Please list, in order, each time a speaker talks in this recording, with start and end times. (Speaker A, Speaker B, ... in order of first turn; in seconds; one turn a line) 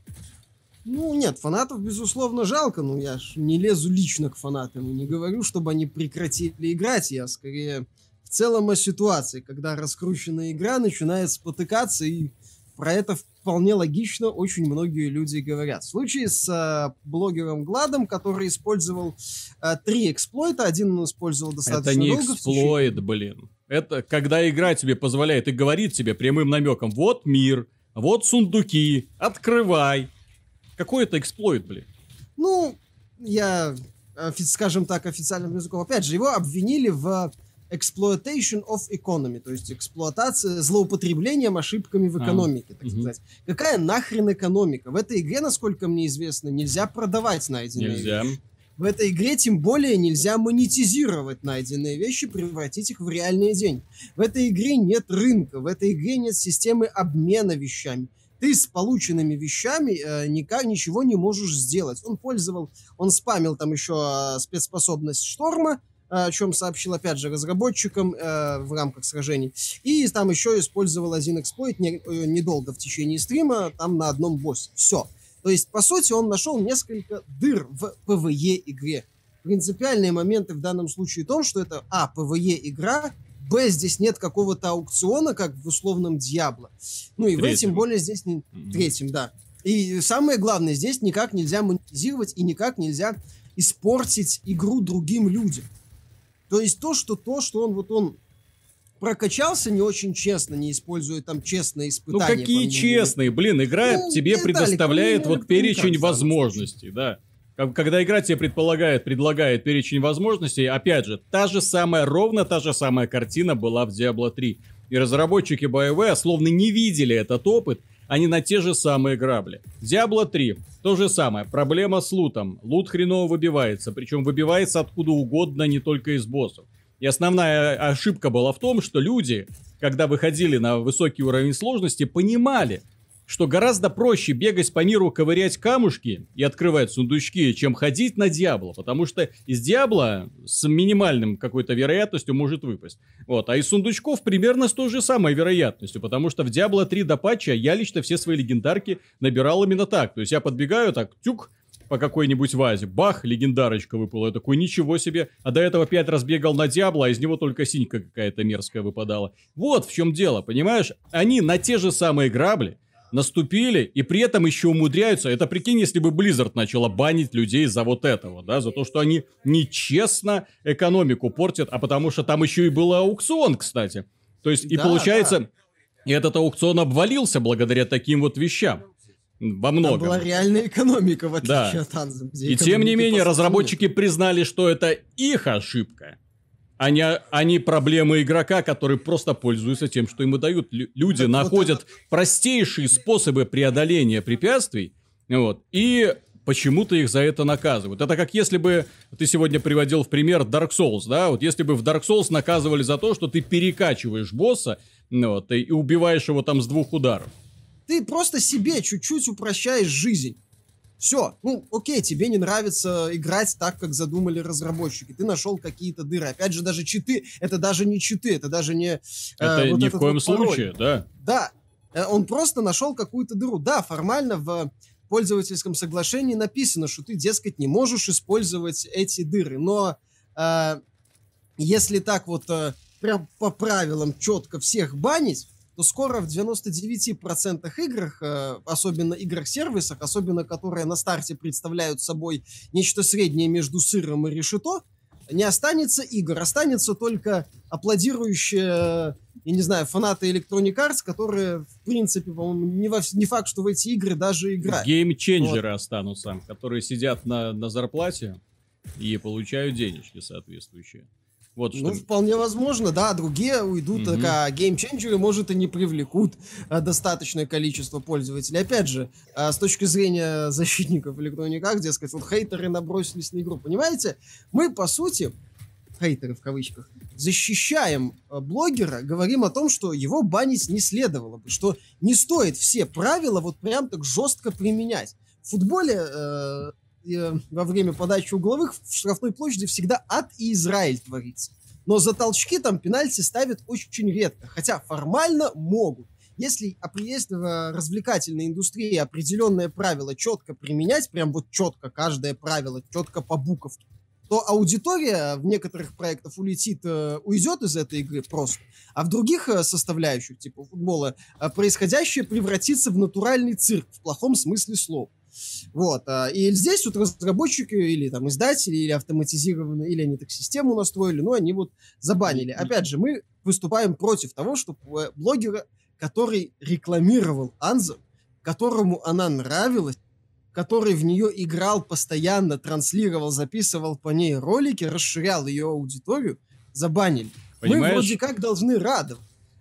Speaker A: 0.8-23.0
Speaker B: 21.7-30.1
Speaker B: 30.8-31.9
Speaker A: 32.4-95.7
Speaker B: 42.2-43.1
Speaker B: 47.8-48.4
Speaker B: 87.4-87.8
Speaker B: 88.5-88.9
Speaker A: 96.5-98.2
Speaker A: 99.0-103.2
Speaker B: 102.1-175.5
Speaker A: 103.8-106.7
Speaker A: 174.7-175.4
Speaker B: 176.1-178.8
Speaker B: 179.4-180.2
Speaker A: 179.8-183.8
Speaker B: 181.4-181.8
Speaker B: 182.4-186.2
Speaker B: 186.8-207.3
Speaker A: 191.1-191.8
Speaker A: 207.9-210.4
Speaker A: 211.0-220.7
Speaker B: 219.4-221.1
Speaker A: 221.2-230.8
Speaker A: 231.6-255.6
Speaker B: 254.6-258.4
Speaker B: 259.0-262.0
Speaker A: 261.7-275.3
Speaker B: 263.9-264.4
Speaker A: 276.0-315.1
Speaker A: 315.7-329.9
Speaker B: 322.3-322.7
Speaker A: 330.5-339.2
Speaker B: 337.6-338.2